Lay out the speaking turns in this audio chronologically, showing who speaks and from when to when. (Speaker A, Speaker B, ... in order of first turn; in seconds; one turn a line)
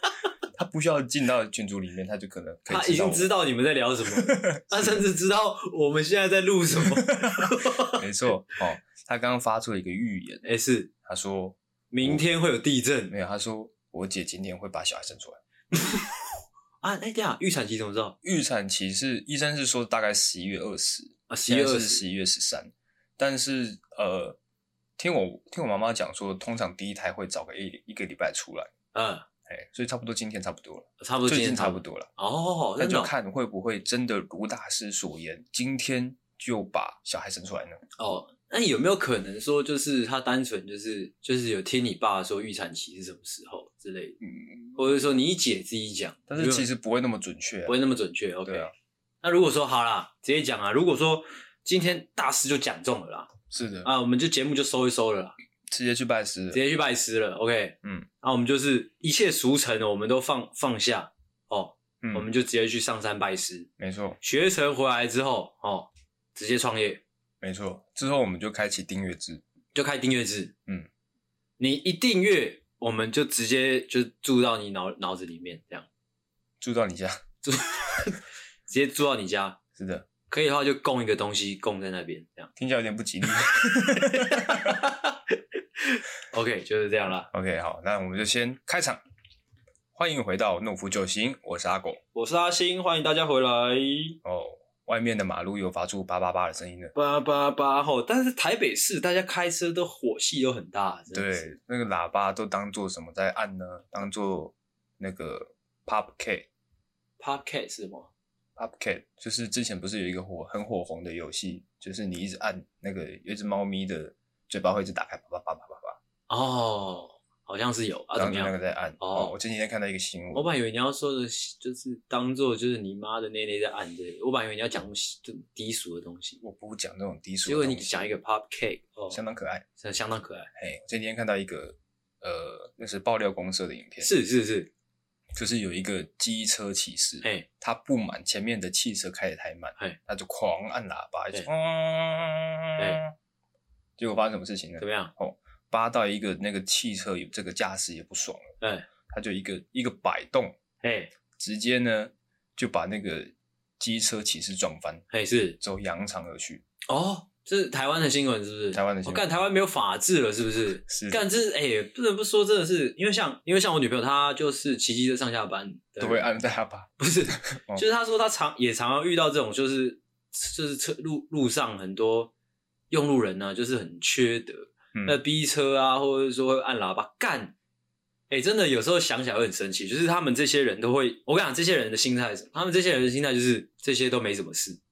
Speaker A: 0.6-3.3
Speaker B: 2.7-8.0
Speaker A: 4.2-5.0
Speaker A: 7.2-10.4
Speaker B: 10.4-10.9
Speaker A: 11.0-12.2
Speaker B: 11.9-13.1
Speaker A: 13.1-15.4
Speaker B: 15.7-16.2
Speaker B: 16.8-18.2
Speaker A: 18.2-24.4
Speaker B: 21.3-22.0
Speaker A: 25.0-28.7
Speaker B: 28.9-29.3
Speaker A: 29.5-32.1
Speaker B: 31.0-33.1
Speaker A: 32.8-37.8
Speaker B: 38.0-44.2
Speaker A: 44.2-44.8
Speaker B: 44.8-46.7
Speaker A: 46.3-47.8
Speaker B: 47.7-48.7
Speaker A: 48.5-48.7
Speaker B: 49.2-53.3
Speaker A: 53.5-53.9
Speaker B: 53.8-55.4
Speaker A: 55.7-56.6
Speaker B: 56.5-63.7
Speaker A: 62.0-62.3
Speaker A: 63.8-64.2
Speaker B: 64.2-67.0
Speaker A: 67.4-69.4
Speaker B: 69.8-70.5
Speaker B: 71.6-75.9
Speaker A: 76.6-77.2
Speaker B: 77.4-79.6
Speaker A: 79.8-80.1
Speaker B: 80.3-82.5
Speaker A: 82.6-84.8
Speaker B: 83.8-87.3
Speaker A: 87.3-89.0
Speaker A: 90.0-92.0
Speaker B: 92.1-94.2
Speaker A: 94.2-96.9
Speaker B: 97.0-101.5
Speaker A: 101.1-106.5
Speaker B: 107.2-108.1
Speaker A: 108.6-116.0
Speaker B: 116.3-119.3
Speaker A: 118.2-120.5
Speaker B: 120.3-126.4
Speaker A: 126.4-128.2
Speaker B: 127.5-129.2
Speaker A: 129.1-129.7
Speaker B: 129.8-130.5
Speaker A: 130.6-134.1
Speaker B: 134.0-134.7
Speaker A: 135.3-143.1
Speaker B: 137.2-137.5
Speaker A: 144.0-148.5
Speaker B: 144.8-145.1
Speaker B: 148.6-148.9
Speaker A: 149.1-150.6
Speaker B: 150.8-151.1
Speaker A: 151.4-155.1
Speaker B: 155.1-155.6
Speaker A: 155.6-156.6
Speaker B: 156.9-166.3
Speaker A: 158.7-159.3
Speaker A: 160.9-161.2
Speaker A: 166.0-167.8
Speaker B: 167.0-172.3
Speaker B: 172.9-177.6
Speaker A: 174.9-175.2
Speaker B: 178.3-184.8